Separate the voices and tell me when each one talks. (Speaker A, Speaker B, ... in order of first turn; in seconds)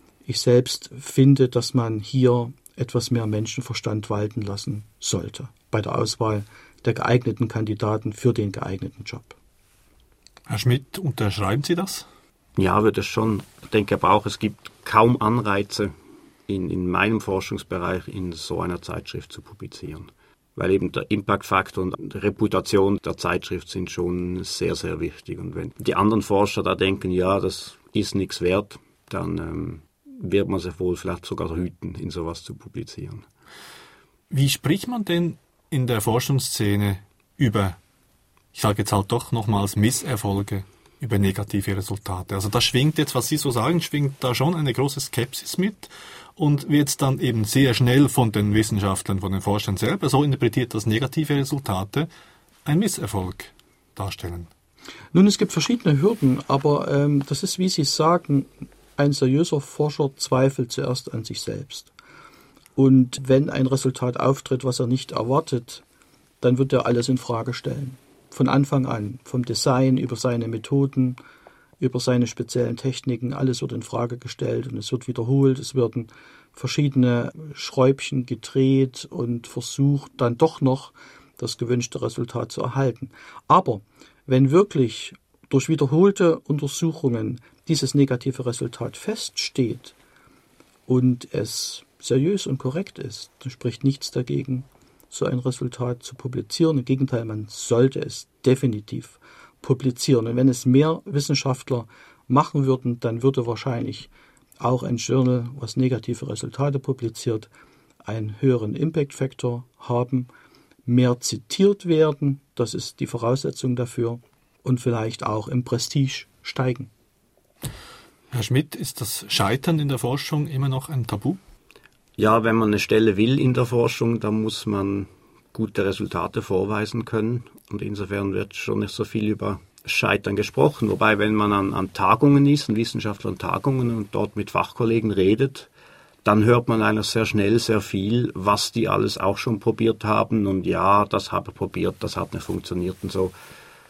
Speaker A: 0.2-9.3, 55.1-61.9, 62.8-65.8, 66.4-71.2, 71.8-89.9, 90.9-107.5, 108.0-110.3, 110.8-116.9
Speaker B: 10.5-12.1, 34.3-37.8, 38.5-52.1, 52.6-54.5, 118.3-121.4
Speaker C: 12.6-15.9, 16.5-33.2, 122.2-135.7, 136.2-143.3